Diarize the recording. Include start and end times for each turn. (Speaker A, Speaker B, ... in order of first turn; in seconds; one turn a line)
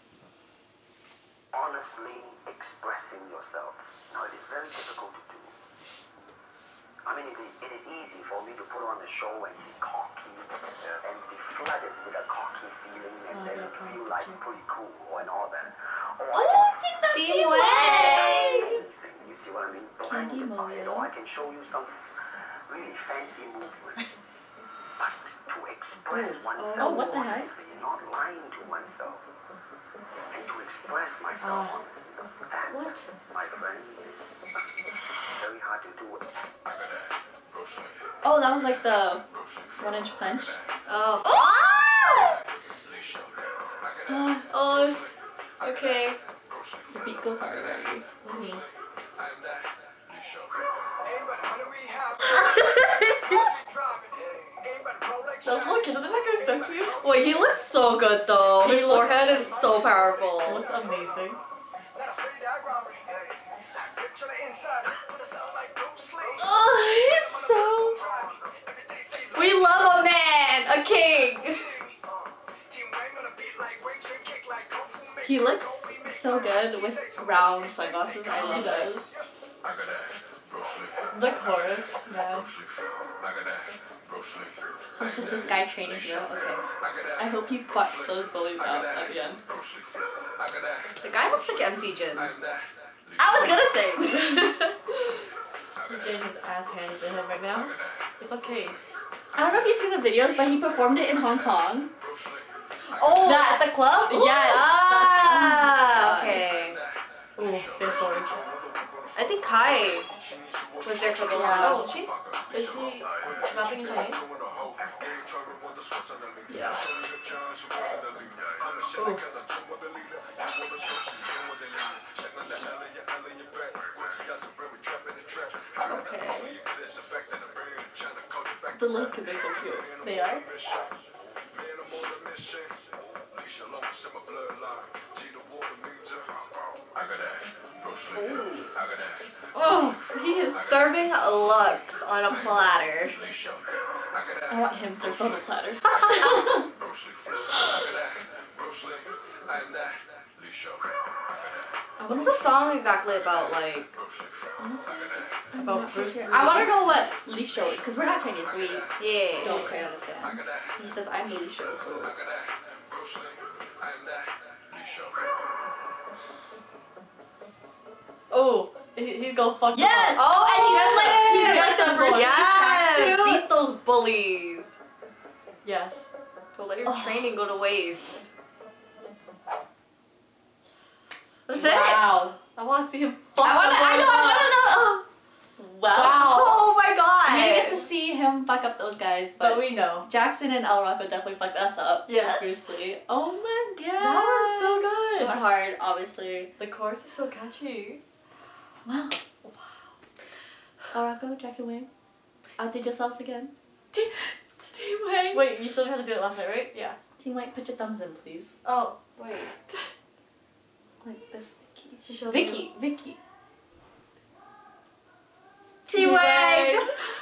Speaker A: 1.5-5.5
Speaker A: 7.0-17.0
Speaker B: 13.3-14.4
Speaker C: 16.3-18.8
Speaker D: 17.1-18.3
Speaker A: 17.9-22.0
Speaker D: 20.0-21.1
Speaker A: 22.6-24.1
Speaker A: 25.0-29.3
Speaker B: 26.1-27.2
Speaker C: 26.6-27.2
Speaker D: 26.6-27.5
Speaker A: 30.3-34.5
Speaker B: 31.4-31.8
Speaker C: 32.7-33.0
Speaker A: 35.3-36.3
Speaker D: 38.2-39.2
Speaker D: 39.8-40.6
Speaker C: 40.9-42.4
Speaker D: 44.1-44.5
Speaker C: 44.5-45.0
Speaker C: 45.6-46.2
Speaker D: 46.9-48.0
Speaker B: 48.2-48.6
Speaker C: 52.2-53.5
Speaker B: 55.4-57.0
Speaker C: 57.0-60.6
Speaker B: 58.6-59.5
Speaker B: 60.4-61.4
Speaker C: 66.3-68.0
Speaker C: 69.3-71.8
Speaker D: 75.2-79.0
Speaker C: 78.4-78.9
Speaker B: 78.6-79.0
Speaker B: 81.1-82.5
Speaker D: 84.9-86.6
Speaker D: 87.1-89.4
Speaker C: 91.0-92.3
Speaker D: 93.2-94.7
Speaker B: 95.9-98.8
Speaker D: 99.3-101.9
Speaker C: 102.9-106.8
Speaker D: 103.2-106.5
Speaker B: 107.3-108.4
Speaker C: 109.1-110.1
Speaker C: 110.8-112.1
Speaker B: 111.3-114.2
Speaker B: 116.5-116.8
Speaker B: 119.0-119.3
Speaker D: 125.8-126.6
Speaker D: 128.7-129.9
Speaker B: 130.0-130.4
Speaker C: 138.1-138.7
Speaker D: 139.5-140.8
Speaker C: 140.6-143.2
Speaker D: 144.5-146.7
Speaker C: 152.0-154.0
Speaker D: 152.0-152.4
Speaker D: 154.6-162.2
Speaker B: 155.6-157.1
Speaker C: 159.0-159.7
Speaker B: 159.4-159.8
Speaker B: 168.3-172.8
Speaker D: 169.7-173.5
Speaker C: 170.1-174.7
Speaker B: 175.6-176.0
Speaker C: 176.5-178.2
Speaker C: 181.5-182.2
Speaker B: 181.5-184.6
Speaker D: 183.4-185.0
Speaker D: 185.6-186.5
Speaker B: 185.9-186.6
Speaker C: 186.0-187.8
Speaker D: 187.2-196.5
Speaker B: 189.4-190.1
Speaker B: 192.1-192.6
Speaker B: 194.0-195.3
Speaker B: 196.6-198.0
Speaker D: 198.8-199.2
Speaker D: 200.9-201.9
Speaker D: 202.6-205.5
Speaker B: 205.3-207.0
Speaker D: 207.2-208.6
Speaker B: 208.6-209.0
Speaker D: 209.2-209.5
Speaker D: 211.0-213.2
Speaker B: 212.0-212.7
Speaker B: 215.9-216.9
Speaker C: 215.9-216.9